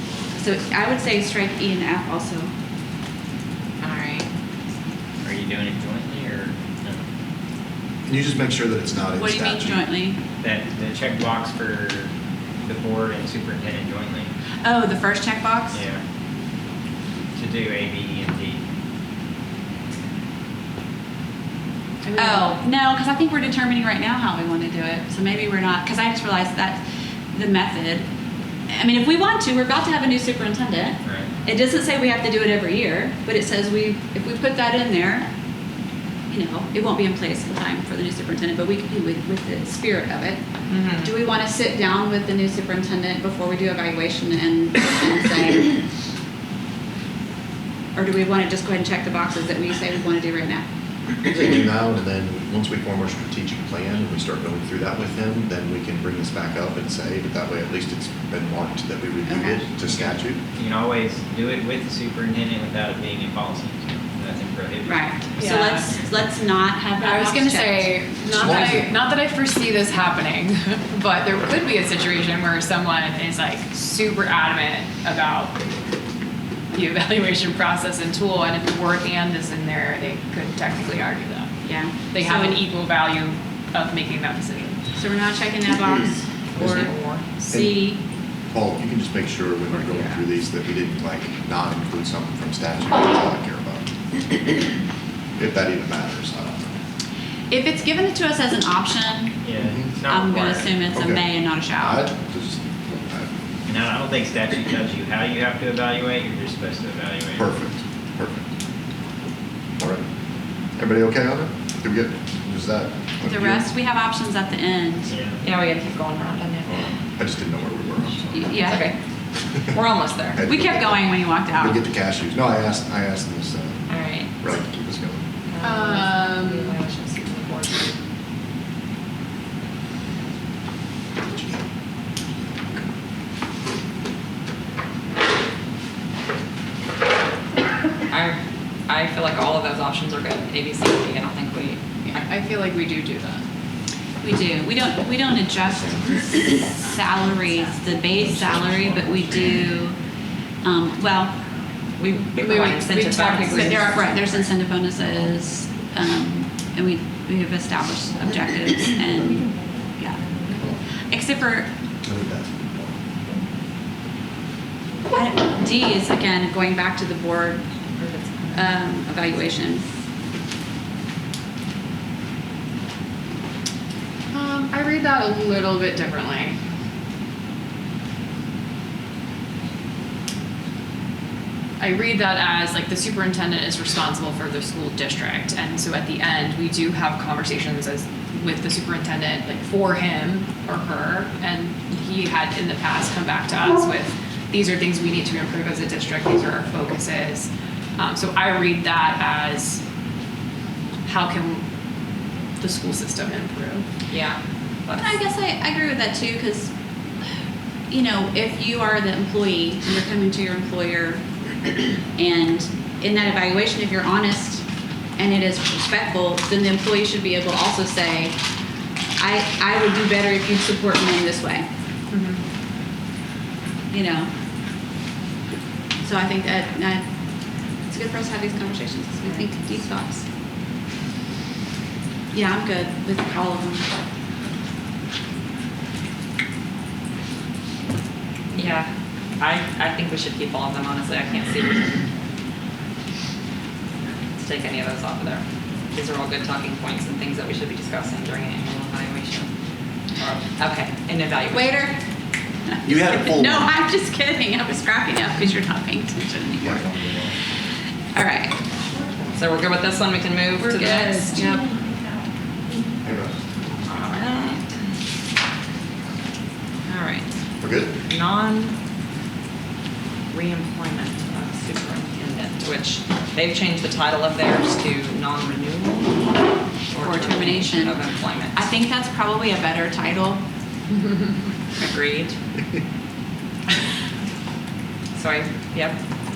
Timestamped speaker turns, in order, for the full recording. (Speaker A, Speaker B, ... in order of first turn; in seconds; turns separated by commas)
Speaker A: 0.3-2.5, Speaker B: 3.8-4.3, Speaker C: 5.2-7.1, Speaker D: 8.1-9.9, Speaker A: 9.2-10.2, Speaker C: 10.4-12.1, Speaker C: 12.6-14.3, Speaker A: 14.6-15.8, Speaker C: 15.7-16.0, Speaker C: 17.4-18.6, Speaker E: 22.0-22.5, Speaker A: 22.1-28.1, Speaker A: 28.7-35.3, Speaker C: 31.0-31.3, Speaker A: 36.3-40.4, Speaker B: 40.7-41.1, Speaker A: 41.0-45.7, Speaker A: 48.0-50.7, Speaker D: 51.2-60.4, Speaker A: 59.3-59.6, Speaker C: 59.9-65.6, Speaker A: 64.8-68.8, Speaker E: 65.5-65.7, Speaker E: 67.0-75.5, Speaker D: 68.3-68.9, Speaker E: 76.7-81.5, Speaker A: 81.6-82.6, Speaker E: 82.2-84.8, Speaker A: 85.0-88.0, Speaker D: 86.6-87.0, Speaker B: 86.7-87.2, Speaker D: 87.5-87.9, Speaker D: 88.5-93.9, Speaker A: 89.7-90.2, Speaker D: 95.4-96.8, Speaker A: 97.5-99.4, Speaker C: 99.4-100.9, Speaker D: 99.6-99.9, Speaker A: 100.1-102.1, Speaker D: 100.9-103.3, Speaker C: 103.7-107.5, Speaker D: 107.4-108.5, Speaker D: 109.8-110.1, Speaker D: 110.8-113.7, Speaker A: 113.2-115.1, Speaker C: 115.1-115.4, Speaker B: 115.4-117.0, Speaker D: 117.0-118.6, Speaker A: 118.3-118.9, Speaker B: 118.6-119.0, Speaker B: 119.7-120.4, Speaker D: 120.3-123.9, Speaker A: 120.4-121.8, Speaker B: 123.9-124.6, Speaker D: 124.4-125.3, Speaker B: 125.5-128.0, Speaker E: 125.6-126.7, Speaker D: 131.2-131.7, Speaker B: 138.1-142.2, Speaker E: 142.1-143.4, Speaker A: 144.2-150.0, Speaker A: 150.6-151.4, Speaker B: 152.0-154.0, Speaker E: 152.4-153.9, Speaker A: 153.5-160.2, Speaker A: 161.1-161.7, Speaker D: 162.0-163.0, Speaker A: 165.1-167.7, Speaker B: 168.0-168.8, Speaker A: 168.5-169.8, Speaker E: 174.3-176.6, Speaker E: 181.8-199.8, Speaker E: 201.1-201.6, Speaker E: 202.6-203.8, Speaker B: 204.1-205.1, Speaker A: 204.9-206.7, Speaker A: 207.9-211.2, Speaker A: 212.2-214.6, Speaker A: 215.2-218.4, Speaker A: 219.2-221.7, Speaker A: 223.9-224.3, Speaker A: 226.0-227.0, Speaker A: 227.9-230.3, Speaker A: 232.3-233.9, Speaker B: 238.5-242.1, Speaker B: 244.4-249.5, Speaker B: 250.2-251.8, Speaker A: 251.5-252.0, Speaker A: 252.7-256.9, Speaker D: 252.8-253.7, Speaker D: 256.6-257.4, Speaker A: 258.1-258.6, Speaker B: 259.4-261.5, Speaker A: 260.6-261.8, Speaker D: 263.0-263.4, Speaker B: 263.9-264.8, Speaker B: 266.9-267.3, Speaker D: 267.6-268.0, Speaker B: 268.1-268.8, Speaker B: 270.3-276.3, Speaker B: 276.9-278.6, Speaker A: 277.0-278.0, Speaker A: 278.5-280.4, Speaker B: 281.8-282.4, Speaker B: 285.1-286.0